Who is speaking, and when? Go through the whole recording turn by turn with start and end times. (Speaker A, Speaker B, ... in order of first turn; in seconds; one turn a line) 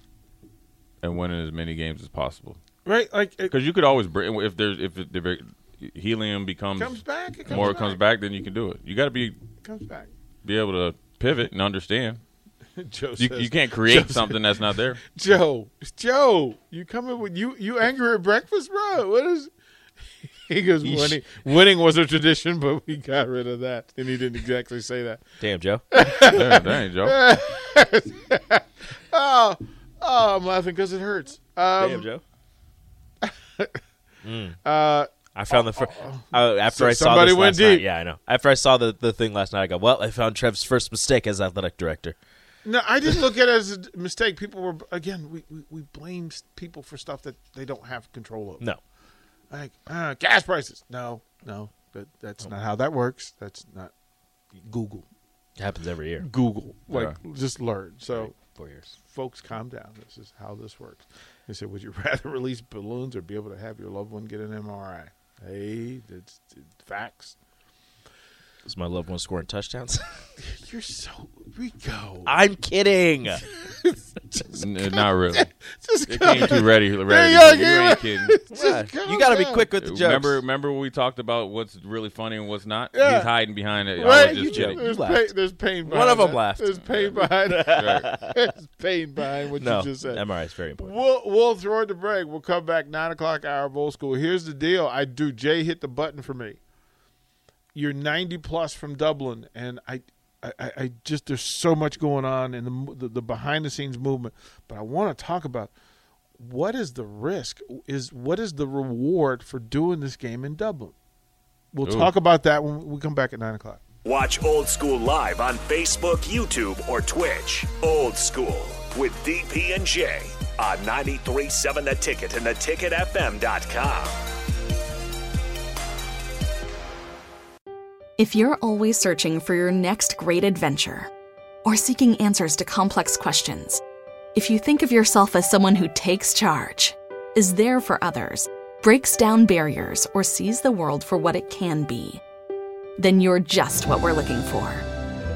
Speaker A: 1.0-2.6
Speaker B: 2.8-3.5
Speaker A: 3.5-9.4
Speaker B: 6.7-8.0
Speaker B: 9.6-10.1
Speaker A: 10.4-12.2
Speaker B: 12.8-19.5
Speaker A: 13.2-15.0
Speaker B: 20.2-25.2
Speaker C: 20.8-21.2
Speaker C: 25.4-25.8
Speaker B: 25.9-32.1
Speaker A: 26.2-27.2
Speaker C: 31.8-32.2
Speaker B: 33.2-33.8
Speaker C: 34.2-34.6
Speaker B: 34.6-37.9
Speaker C: 35.3-42.1
Speaker B: 42.6-48.7
Speaker B: 49.5-53.9
Speaker B: 54.5-55.0
Speaker C: 55.6-56.3
Speaker B: 56.2-58.3
Speaker A: 56.9-57.2
Speaker C: 58.1-58.9
Speaker B: 59.0-67.3
Speaker C: 68.6-70.0
Speaker B: 70.4-72.3
Speaker C: 72.2-73.4
Speaker B: 73.5-79.7
Speaker A: 74.5-75.5
Speaker A: 76.1-78.4
Speaker C: 78.5-80.4
Speaker A: 79.8-84.8
Speaker B: 82.9-83.3
Speaker B: 84.0-90.2
Speaker C: 84.0-85.3
Speaker C: 85.8-88.3
Speaker A: 85.9-86.1
Speaker A: 87.7-88.1
Speaker C: 89.6-90.9
Speaker B: 90.8-96.6
Speaker B: 97.7-105.7
Speaker B: 106.4-110.9
Speaker B: 111.7-113.8
Speaker A: 111.8-112.1
Speaker D: 114.0-124.2
Speaker E: 128.2-131.1
Speaker E: 131.6-133.8
Speaker E: 134.3-142.2
Speaker E: 143.0-144.8